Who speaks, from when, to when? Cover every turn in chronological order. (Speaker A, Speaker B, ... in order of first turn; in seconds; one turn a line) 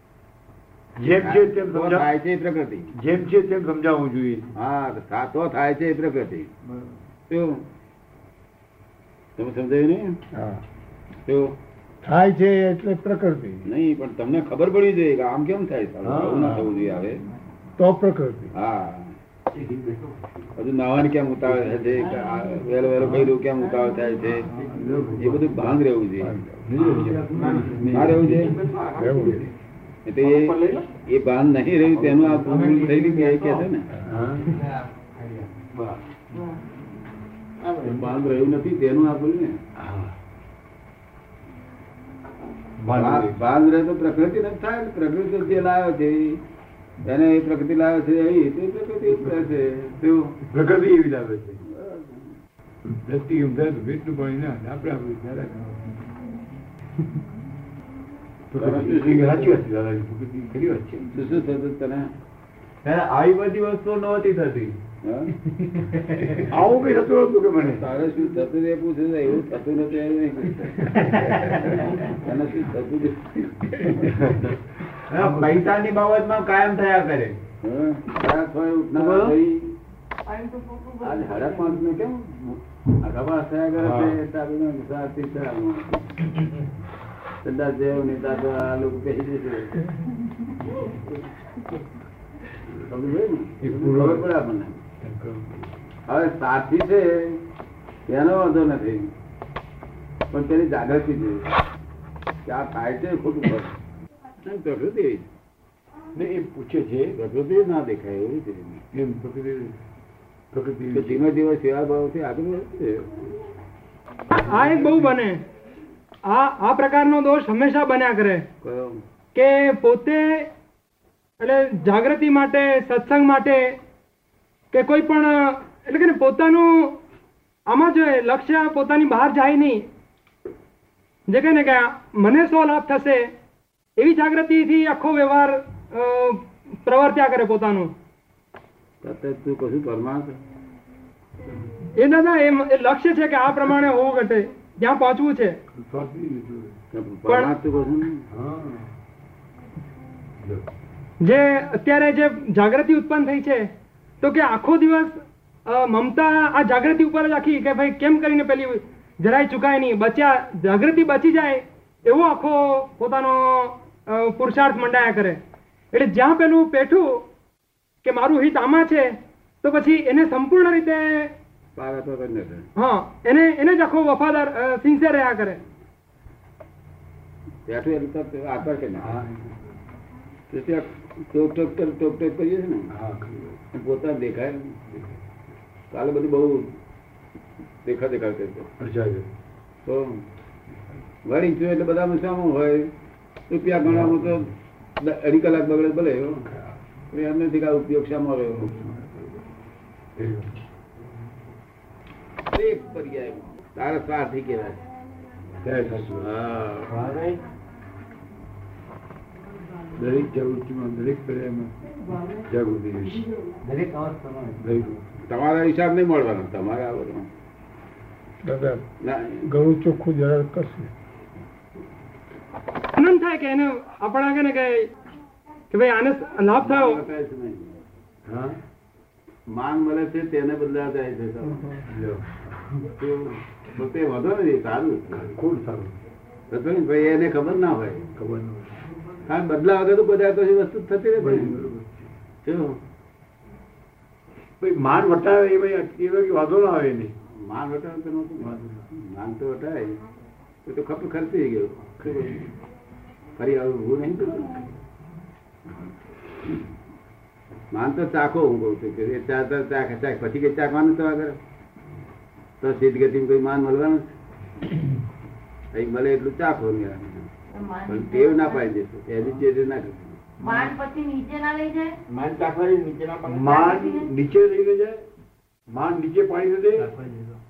Speaker A: 1.0-2.1
Speaker B: 1.1-2.9
Speaker A: 2.9-4.5
Speaker B: 4.5-6.5
Speaker B: 7.3-7.6
Speaker B: 9.4-10.2
Speaker C: 10.3-10.6
Speaker B: 11.2-11.5
Speaker C: 12.0-13.6
Speaker B: 13.6-17.2
Speaker A: 16.0-16.7
Speaker C: 17.8-18.5
Speaker B: 18.5-19.1
Speaker B: 20.6-24.5
Speaker A: 23.0-23.4
Speaker A: 24.5-25.8
Speaker B: 25.2-26.4
Speaker A: 26.5-28.6
Speaker D: 26.9-27.8
Speaker B: 27.8-28.6
Speaker D: 28.4-29.3
Speaker C: 29.0-29.4
Speaker B: 30.1-33.9
Speaker D: 30.3-30.8
Speaker D: 32.4-33.6
Speaker A: 34.0-34.6
Speaker B: 37.8-39.6
Speaker A: 39.8-40.1
Speaker A: 42.8-43.4
Speaker B: 42.9-46.4
Speaker B: 47.0-50.4
Speaker A: 50.5-51.6
Speaker B: 51.6-52.3
Speaker A: 52.9-56.0
Speaker A: 58.5-61.2
Speaker B: 58.5-59.6
Speaker B: 61.1-62.1
Speaker B: 65.0-65.3
Speaker D: 65.9-66.4
Speaker A: 66.4-67.8
Speaker B: 67.6-74.0
Speaker D: 71.0-71.7
Speaker A: 74.0-74.6
Speaker A: 75.1-75.5
Speaker B: 75.1-75.5
Speaker B: 77.5-79.8
Speaker D: 79.0-79.3
Speaker E: 80.2-81.8
Speaker B: 81.0-86.2
Speaker A: 83.8-84.2
Speaker B: 87.4-89.8
Speaker B: 92.8-94.8
Speaker A: 93.6-94.3
Speaker A: 95.0-95.6
Speaker B: 96.1-97.4
Speaker B: 98.1-99.1
Speaker B: 100.3-101.5
Speaker B: 102.4-103.7
Speaker B: 104.4-105.3
Speaker A: 106.1-107.1
Speaker B: 107.2-108.8
Speaker A: 108.9-109.8
Speaker A: 110.5-111.2
Speaker B: 110.9-113.3
Speaker F: 114.3-115.4
Speaker A: 114.3-114.9
Speaker F: 116.2-118.5
Speaker B: 118.6-119.0
Speaker F: 119.3-120.5
Speaker F: 121.4-123.8
Speaker F: 124.7-127.0
Speaker F: 127.7-129.8
Speaker F: 131.3-133.3
Speaker F: 134.0-137.9
Speaker B: 139.0-140.4
Speaker F: 141.9-145.6
Speaker A: 145.7-146.7
Speaker B: 146.9-148.2
Speaker A: 148.3-148.9
Speaker A: 150.4-150.7
Speaker F: 151.2-153.7
Speaker F: 154.2-165.4
Speaker F: 165.9-167.2
Speaker F: 168.0-171.3
Speaker B: 171.8-172.7
Speaker F: 172.8-175.6
Speaker B: 177.7-179.2
Speaker A: 179.0-179.6
Speaker B: 180.5-182.9
Speaker A: 182.9-183.5
Speaker B: 183.7-184.8
Speaker A: 184.9-185.2
Speaker B: 185.9-186.7
Speaker B: 187.8-188.7
Speaker A: 188.8-189.3
Speaker B: 189.8-190.2
Speaker B: 191.2-192.9
Speaker B: 193.5-196.4
Speaker A: 193.8-194.5
Speaker A: 196.4-196.7
Speaker B: 197.1-198.8
Speaker A: 198.7-199.1
Speaker A: 200.2-200.5
Speaker B: 202.5-204.8
Speaker A: 205.6-206.3
Speaker B: 206.2-207.1
Speaker D: 206.9-207.4
Speaker A: 209.9-211.7
Speaker A: 212.4-213.3
Speaker D: 213.6-215.0
Speaker A: 214.6-214.9
Speaker B: 215.3-217.3
Speaker C: 218.4-218.8
Speaker B: 219.0-219.5
Speaker C: 219.4-220.9
Speaker F: 222.9-224.9
Speaker F: 225.7-227.0
Speaker B: 226.6-227.8
Speaker A: 228.2-228.6
Speaker B: 229.5-231.8
Speaker A: 231.8-232.7
Speaker B: 233.0-235.4
Speaker A: 235.1-236.0
Speaker B: 236.5-238.1
Speaker A: 238.2-238.8
Speaker B: 239.2-241.6
Speaker A: 241.2-242.1
Speaker B: 242.4-242.8
Speaker A: 244.6-247.1
Speaker B: 247.3-250.0
Speaker A: 248.4-248.8
Speaker B: 250.6-252.5
Speaker A: 252.0-252.3
Speaker B: 253.4-254.7
Speaker B: 257.7-261.4
Speaker B: 262.6-264.1
Speaker B: 265.7-267.3
Speaker E: 267.5-268.7
Speaker B: 267.9-270.2
Speaker E: 270.4-272.0
Speaker D: 270.4-270.7
Speaker D: 272.1-273.5
Speaker A: 273.2-275.0
Speaker E: 273.4-274.1
Speaker A: 275.7-276.9
Speaker D: 276.7-277.4